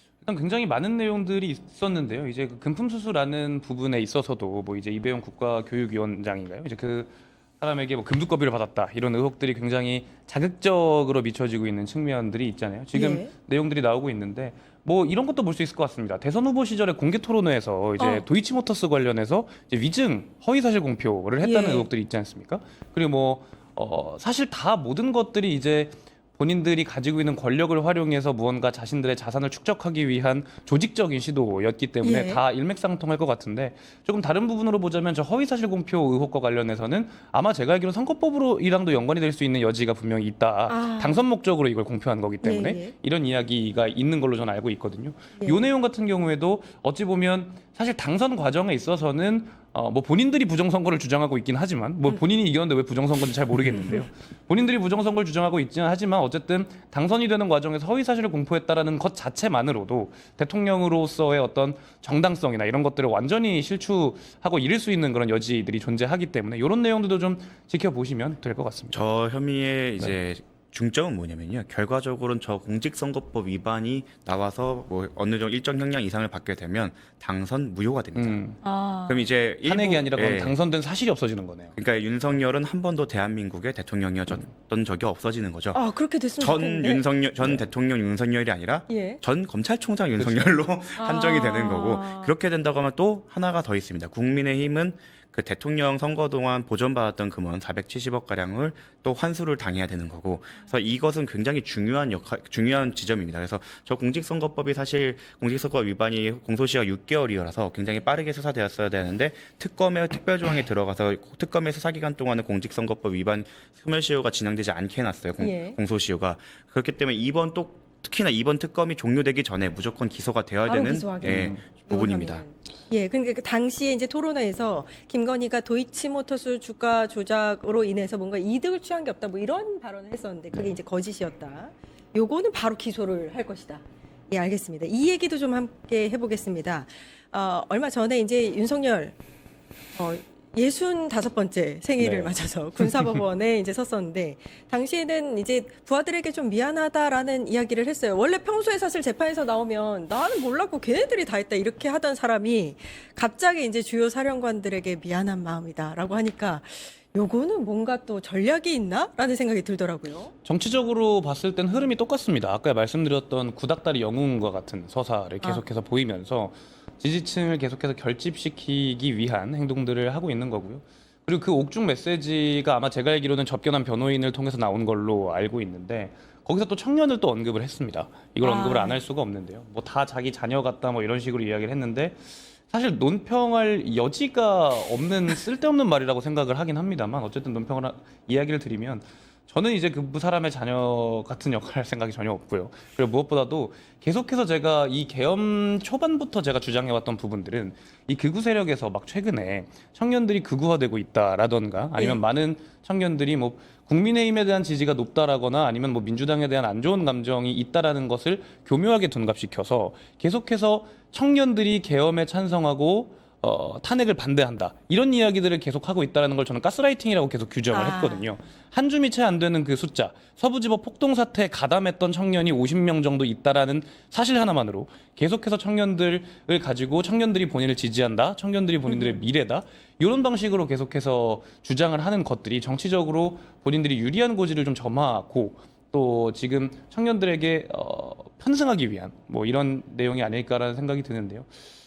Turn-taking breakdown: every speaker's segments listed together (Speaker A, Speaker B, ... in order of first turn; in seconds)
Speaker A: 0.2-69.0, 78.2-78.6, 79.6-81.8, 90.2-90.7, 121.2-121.6, 142.0-142.3, 160.4-241.5
Speaker B: 12.9-13.3, 18.0-18.2, 21.4-21.9, 32.0-32.4, 40.7-41.2, 42.4-42.9, 45.4-45.7, 78.6-79.3, 85.7-87.0, 88.9-89.2, 91.0-92.3, 115.4-115.8, 120.6-139.1, 139.9-160.3, 178.4-179.0, 217.7-218.3, 228.9-229.2
Speaker C: 68.9-78.4, 79.1-80.6, 81.8-85.8, 86.4-122.5